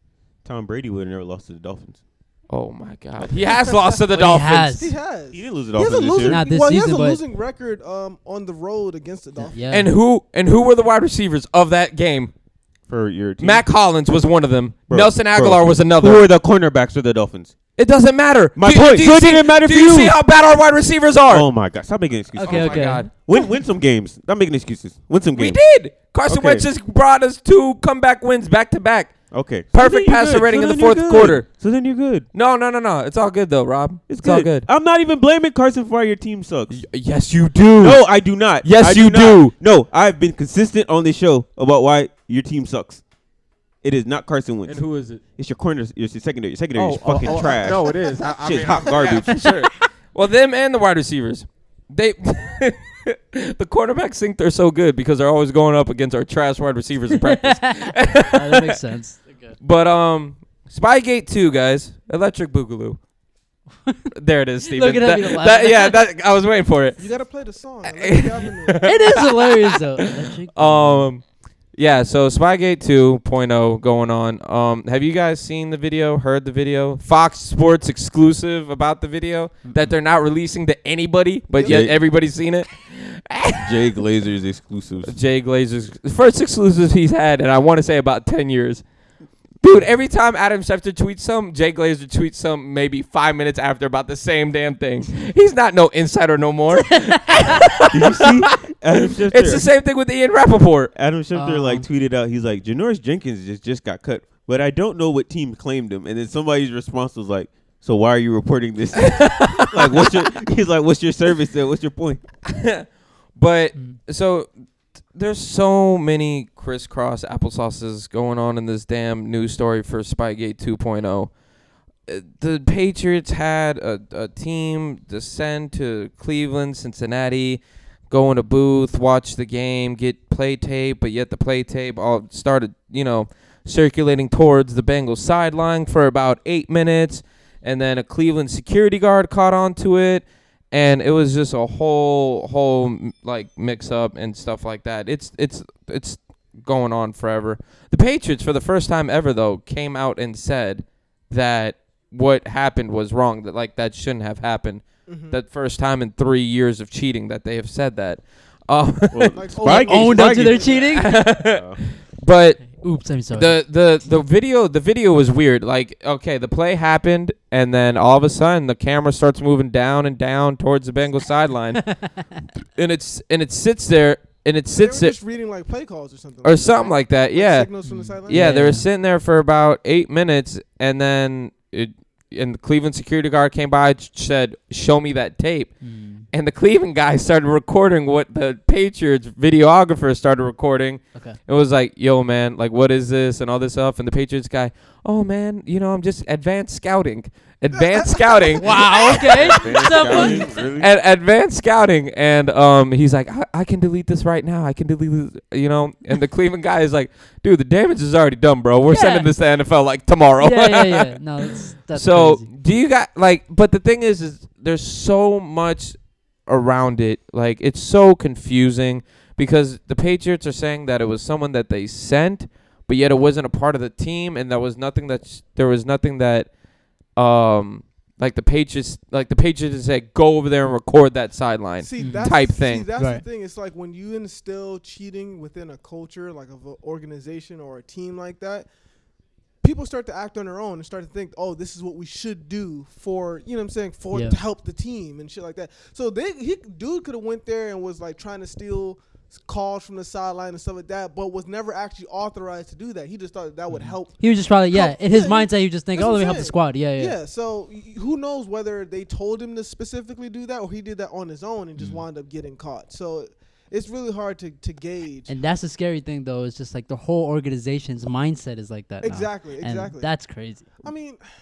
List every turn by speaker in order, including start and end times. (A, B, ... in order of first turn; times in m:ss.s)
0:00.4-0:02.0 A
0:02.5-0:04.7 B
0:03.4-0:03.8 C
0:04.1-0:04.9 D
0:04.7-0:09.6 C
0:05.3-0:06.4 A
0:06.2-0:07.2 D
0:09.5-0:09.9 D
0:09.7-0:12.3 B
0:12.9-0:13.6 A
0:13.4-0:16.2 B
0:14.9-0:17.6 A
0:17.8-0:21.5 B
0:18.6-0:20.2 A
0:21.3-0:25.6 A
0:22.4-0:23.1 D
0:22.4-0:23.1 B
0:25.3-0:29.2 B
0:26.3-0:26.6 A
0:29.3-0:32.3 A
0:29.7-0:31.5 B
0:32.3-0:34.7 B
0:34.1-0:36.8 A
0:36.7-0:39.5 B
0:37.8-0:43.0 A
0:43.8-0:49.5 A
0:44.6-0:45.2 B
0:46.7-0:58.8 B
0:47.2-0:48.3 C
0:57.1-0:59.6 D
0:59.6-1:03.0 B
1:04.1-1:07.0 B
1:04.7-1:06.0 D
1:07.0-1:09.0 C
1:07.8-1:11.2 B
1:08.8-1:11.1 D
1:11.8-1:23.8 B
1:19.6-1:19.9 D
1:21.6-1:21.8 C
1:21.6-1:22.0 A
1:23.5-1:25.1 A
1:25.0-1:28.8 B
1:29.6-1:38.5 B
1:37.9-1:39.7 A
1:39.0-1:40.9 B
1:40.9-1:52.2 A
1:41.3-1:41.8 D
1:49.0-1:50.2 B
1:52.4-1:54.5 B
1:55.1-2:01.3 B
2:02.1-2:39.4 B
2:35.1-2:35.4 C
2:39.1-2:41.8 A
2:39.3-2:40.9 C
2:39.6-2:41.1 D
2:40.9-2:42.8 B
2:42.7-2:43.6 D
2:43.3-2:52.0 B
2:51.8-2:52.2 D
2:52.8-2:55.2 B
2:54.7-2:58.5 C
2:56.4-2:57.7 B
2:57.8-2:58.8 D
2:58.2-3:46.5 B
3:05.8-3:06.2 D
3:17.7-3:18.9 C
3:18.6-3:20.4 D
3:19.3-3:20.9 A
3:28.9-3:29.3 D
3:30.4-3:32.5 D
3:47.1-3:52.9 B
3:51.8-3:58.7 C
3:52.0-3:52.3 D
3:53.0-3:53.2 D
3:59.6-4:25.3 C
4:04.1-4:04.4 D
4:13.7-4:17.1 D
4:21.8-4:22.0 D
4:25.3-4:30.7 D
4:29.0-4:30.1 C
4:30.8-4:31.2 C